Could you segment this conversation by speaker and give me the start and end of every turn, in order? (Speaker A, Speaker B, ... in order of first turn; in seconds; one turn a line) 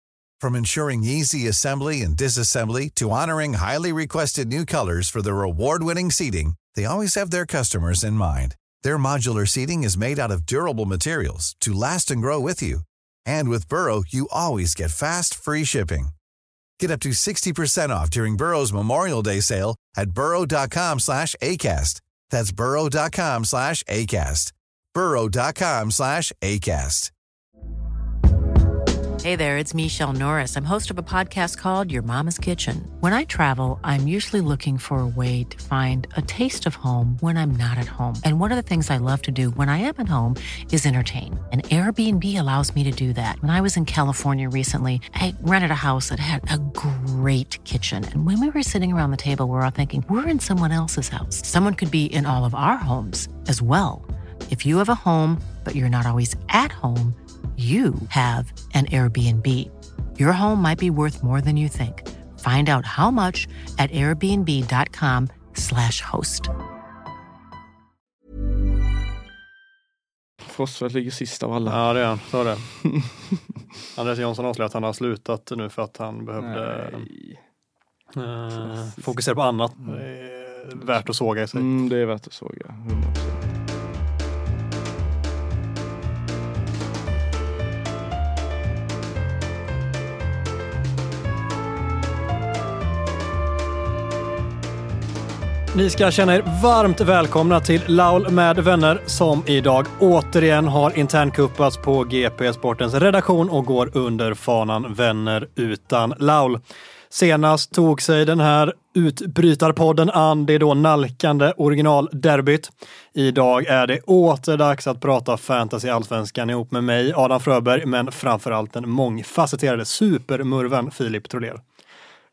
Speaker A: 0.4-16.1
Speaker A: 16.8-27.1
Speaker B: 29.2-66.5
Speaker C: 70.4-71.8
Speaker D: 71.6-72.7
Speaker C: 72.8-73.4
Speaker D: 73.9-77.1
Speaker C: 76.4-77.4
Speaker D: 78.1-81.7
Speaker C: 78.6-79.0
Speaker C: 81.5-83.5
Speaker D: 95.7-121.6